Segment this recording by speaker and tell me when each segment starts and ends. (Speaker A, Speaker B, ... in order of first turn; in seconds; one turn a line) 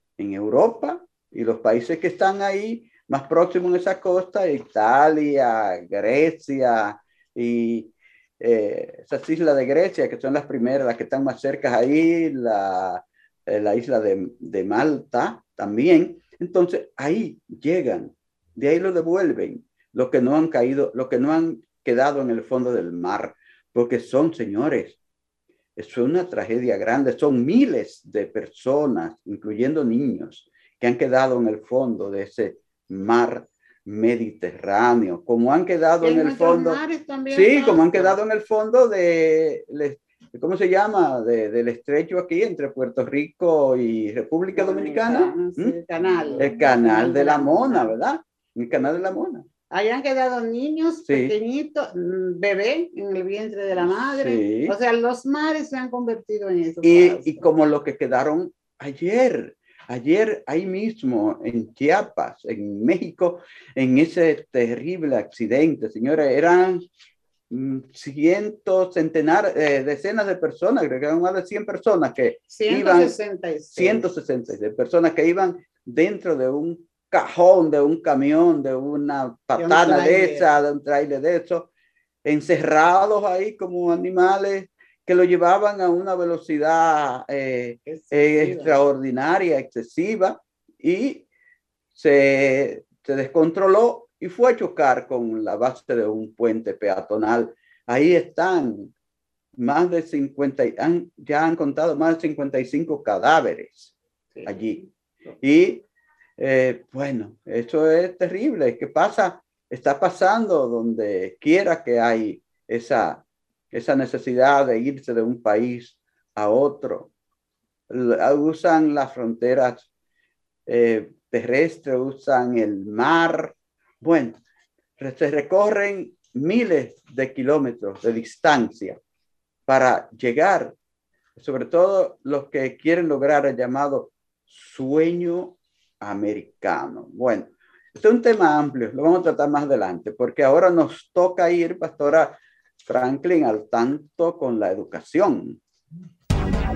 Speaker A: 0.2-25.0
Speaker A: 25.8-45.8
Speaker B: 36.0-38.2
Speaker B: 44.5-48.0
Speaker A: 46.4-49.5
Speaker B: 49.7-57.5
Speaker A: 51.1-51.4
Speaker A: 53.8-54.7
Speaker A: 56.8-66.9
Speaker A: 67.5-73.2
Speaker B: 72.5-74.1
Speaker A: 73.8-81.7
Speaker B: 79.6-80.5
Speaker A: 82.2-91.2
Speaker B: 87.9-88.8
Speaker A: 91.9-98.9
Speaker A: 99.6-103.9
Speaker B: 104.4-104.9
Speaker A: 104.4-104.8
Speaker A: 105.4-105.8
Speaker A: 106.4-117.1
Speaker A: 117.9-119.9
Speaker A: 120.7-124.4
Speaker A: 125.0-129.0
Speaker A: 129.7-130.8
Speaker A: 131.4-145.6